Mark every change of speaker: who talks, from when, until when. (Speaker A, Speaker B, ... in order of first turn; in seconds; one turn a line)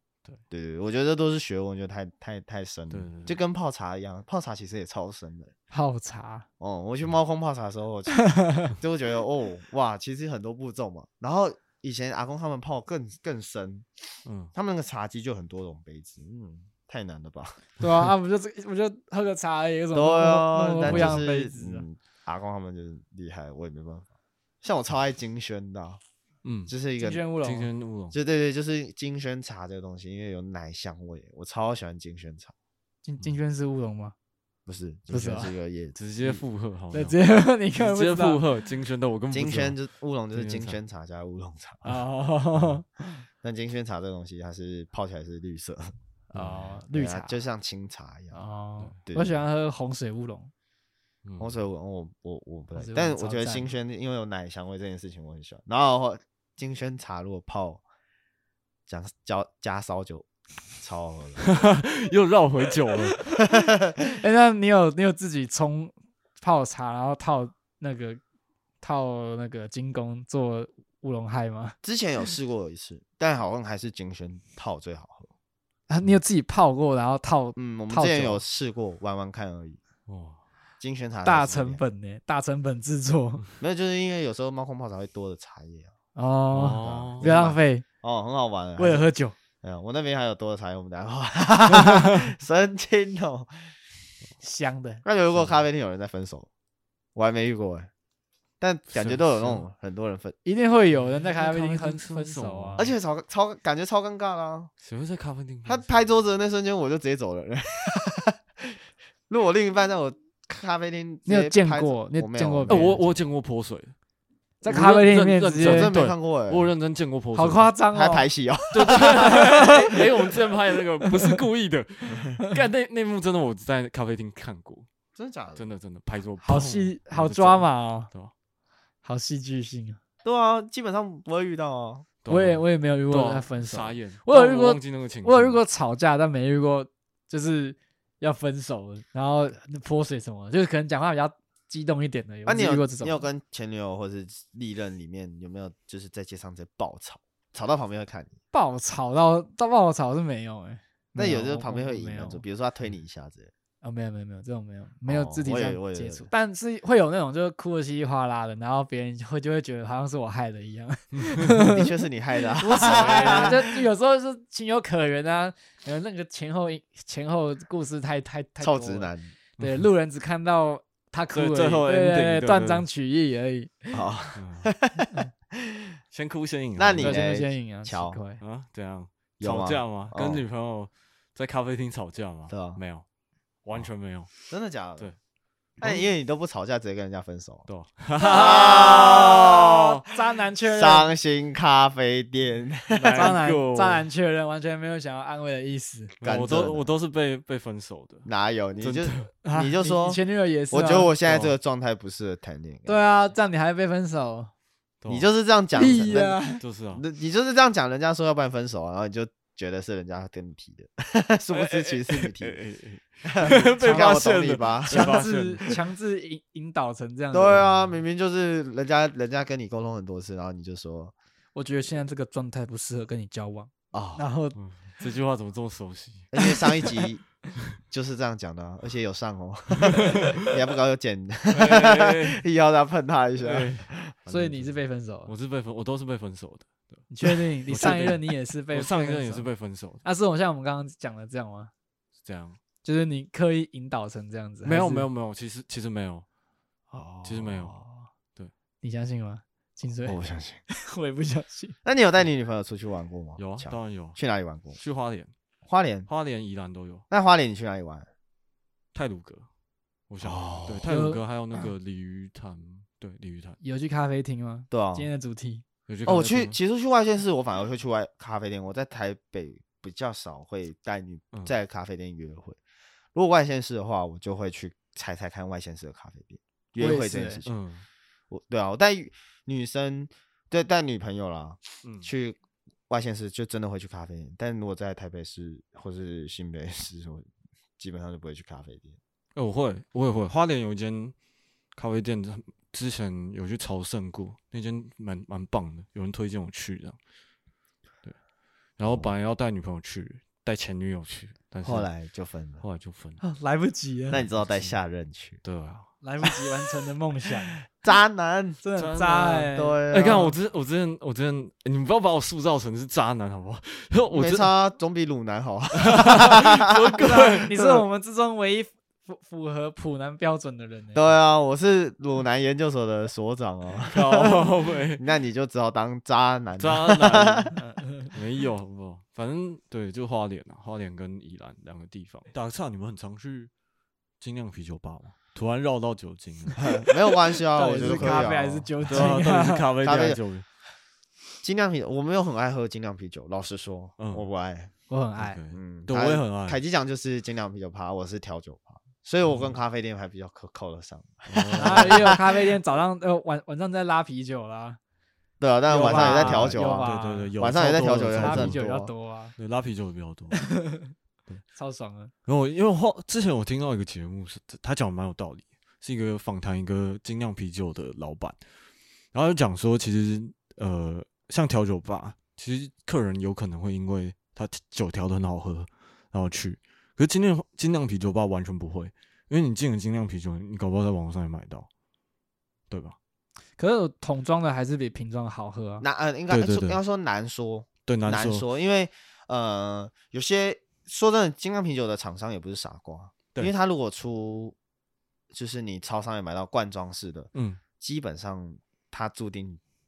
Speaker A: 0.5-5.5
Speaker B: 2.9-3.4
Speaker C: 5.7-6.5
Speaker A: 6.6-17.6
Speaker C: 8.1-8.7
Speaker B: 14.2-14.5
Speaker B: 17.8-18.1
Speaker C: 17.8-21.8
Speaker A: 19.9-24.1
Speaker B: 20.8-21.2
Speaker A: 24.6-26.0
Speaker B: 26.4-26.7
Speaker A: 26.7-27.2
Speaker C: 27.0-27.7
Speaker B: 27.4-28.1
Speaker A: 28.1-32.5
Speaker C: 33.0-34.1
Speaker A: 34.7-36.4
Speaker C: 35.1-35.5
Speaker B: 35.9-37.2
Speaker C: 36.9-38.4
Speaker B: 37.7-39.8
Speaker A: 39.3-41.9
Speaker B: 40.3-40.8
Speaker C: 41.8-43.2
Speaker A: 43.4-45.9
Speaker C: 46.3-47.4
Speaker B: 46.3-46.8
Speaker A: 46.9-48.4
Speaker C: 48.3-50.5
Speaker A: 49.0-49.4
Speaker B: 51.2-51.5
Speaker A: 51.4-57.8
Speaker C: 52.8-53.7
Speaker A: 58.9-60.2
Speaker A: 60.8-61.4
Speaker B: 61.4-63.2
Speaker C: 64.0-68.2
Speaker C: 68.8-71.8
Speaker A: 71.8-75.3
Speaker C: 75.9-78.4
Speaker A: 77.5-79.8
Speaker B: 80.1-80.4
Speaker A: 80.8-81.8
Speaker C: 81.2-83.4
Speaker A: 83.6-85.9
Speaker C: 86.2-87.8
Speaker B: 86.5-87.3
Speaker A: 86.8-89.1
Speaker C: 88.8-89.3
Speaker A: 89.6-93.7
Speaker C: 94.4-95.0
Speaker A: 95.0-96.5
Speaker A: 97.1-97.9
Speaker A: 98.6-100.3
Speaker B: 98.9-99.6
Speaker C: 100.4-102.8
Speaker B: 100.9-102.9
Speaker A: 102.8-104.7
Speaker B: 104.8-105.8
Speaker A: 105.6-108.7
Speaker A: 109.3-113.1
Speaker C: 111.2-113.0
Speaker B: 112.7-113.9
Speaker C: 114.6-115.9
Speaker B: 114.7-117.7
Speaker A: 115.6-116.7
Speaker C: 117.3-118.3
Speaker A: 117.9-119.8
Speaker B: 118.7-124.9
Speaker C: 119.2-120.0
Speaker C: 121.1-121.4
Speaker A: 125.2-125.7
Speaker B: 125.5-128.3
Speaker C: 126.4-128.1
Speaker C: 129.0-130.0
Speaker A: 130.2-132.1
Speaker B: 132.2-135.6
Speaker C: 132.3-143.2
Speaker A: 142.4-148.3
Speaker C: 148.5-152.4
Speaker A: 151.2-153.5
Speaker C: 153.8-161.9
Speaker A: 155.0-156.3
Speaker B: 161.2-161.5
Speaker A: 161.6-163.7
Speaker C: 162.6-174.0
Speaker B: 162.8-163.6
Speaker A: 168.6-169.3
Speaker B: 169.6-169.8
Speaker B: 171.3-172.8
Speaker A: 173.9-175.8
Speaker B: 174.3-174.7
Speaker B: 176.1-177.2
Speaker A: 176.8-178.2
Speaker C: 177.0-178.4
Speaker B: 178.4-183.0
Speaker A: 179.4-180.4
Speaker A: 182.5-182.8
Speaker B: 183.6-184.3
Speaker A: 184.5-185.1
Speaker A: 185.8-187.7
Speaker B: 187.7-190.0
Speaker A: 188.2-190.0
Speaker C: 188.7-189.4
Speaker C: 190.1-191.1
Speaker A: 190.6-193.4
Speaker B: 192.9-194.1
Speaker C: 193.1-196.1
Speaker A: 196.2-196.8
Speaker B: 196.2-198.2
Speaker A: 198.2-200.2
Speaker B: 198.8-199.3
Speaker C: 199.4-201.1
Speaker A: 200.7-203.0
Speaker B: 201.2-201.5
Speaker C: 202.8-204.5
Speaker B: 205.0-205.3
Speaker A: 205.1-206.4
Speaker C: 205.7-206.6
Speaker B: 206.6-207.0
Speaker A: 206.9-212.6
Speaker B: 211.5-215.8
Speaker A: 213.2-215.2
Speaker C: 213.5-214.3
Speaker C: 214.8-217.6
Speaker A: 217.3-221.1
Speaker B: 217.5-218.0
Speaker C: 221.5-224.6
Speaker A: 223.9-224.2
Speaker B: 224.6-226.3
Speaker A: 226.3-227.2
Speaker A: 227.9-234.2
Speaker B: 229.8-230.4
Speaker B: 231.5-232.4
Speaker B: 233.4-234.7
Speaker C: 234.3-235.3
Speaker B: 235.3-237.0
Speaker C: 237.1-239.5
Speaker B: 237.7-240.0
Speaker C: 240.0-241.7
Speaker B: 242.2-242.6
Speaker C: 242.8-245.1
Speaker B: 244.6-246.2
Speaker A: 246.9-248.1
Speaker B: 247.2-247.7
Speaker C: 248.8-250.2
Speaker A: 250.1-250.6
Speaker C: 250.7-251.8
Speaker A: 251.8-254.8
Speaker B: 253.4-254.2
Speaker B: 254.8-255.3
Speaker A: 255.7-256.1
Speaker B: 256.1-257.0
Speaker A: 257.1-258.1
Speaker B: 258.9-259.5
Speaker B: 260.1-263.6
Speaker A: 260.2-260.9
Speaker C: 260.9-261.2
Speaker C: 263.6-265.6
Speaker A: 264.7-265.1
Speaker B: 265.9-266.6
Speaker A: 266.1-272.6
Speaker A: 273.1-277.6
Speaker C: 276.8-277.4
Speaker B: 277.4-277.9
Speaker A: 278.3-282.4
Speaker B: 281.8-282.1
Speaker A: 282.9-287.3
Speaker A: 287.8-289.0
Speaker B: 289.3-291.1
Speaker B: 291.7-297.0
Speaker B: 298.8-301.9
Speaker A: 301.6-302.6
Speaker B: 302.6-303.2
Speaker C: 303.2-304.2
Speaker A: 304.1-305.4
Speaker B: 304.3-304.8
Speaker B: 305.4-305.9
Speaker C: 306.0-307.6
Speaker A: 307.7-308.6
Speaker C: 308.6-309.8
Speaker B: 308.8-314.5
Speaker A: 309.5-310.3
Speaker A: 314.1-317.8
Speaker B: 315.8-317.5
Speaker C: 317.0-321.0
Speaker A: 320.9-324.4
Speaker B: 323.9-325.0
Speaker A: 325.0-327.6
Speaker B: 326.6-327.6
Speaker C: 327.6-328.1
Speaker B: 328.1-333.5
Speaker B: 334.2-336.8
Speaker A: 336.6-339.1
Speaker C: 337.5-339.7
Speaker B: 337.8-338.2
Speaker B: 338.8-340.4
Speaker A: 339.8-340.2
Speaker A: 341.4-344.7
Speaker B: 344.0-344.2
Speaker C: 344.9-345.4
Speaker B: 345.2-346.6
Speaker A: 345.5-352.2
Speaker B: 349.3-349.6
Speaker B: 351.3-352.2
Speaker C: 351.6-354.8
Speaker A: 355.4-358.9
Speaker C: 355.7-357.3
Speaker B: 355.7-358.6
Speaker C: 358.1-359.3
Speaker B: 359.4-360.4
Speaker C: 360.3-360.9
Speaker C: 361.5-362.1
Speaker B: 362.2-368.4
Speaker B: 369.1-381.7
Speaker B: 382.7-383.0
Speaker C: 383.6-385.8
Speaker A: 385.8-394.5
Speaker B: 386.3-386.8
Speaker B: 387.9-388.4
Speaker A: 395.3-399.6
Speaker B: 397.3-397.6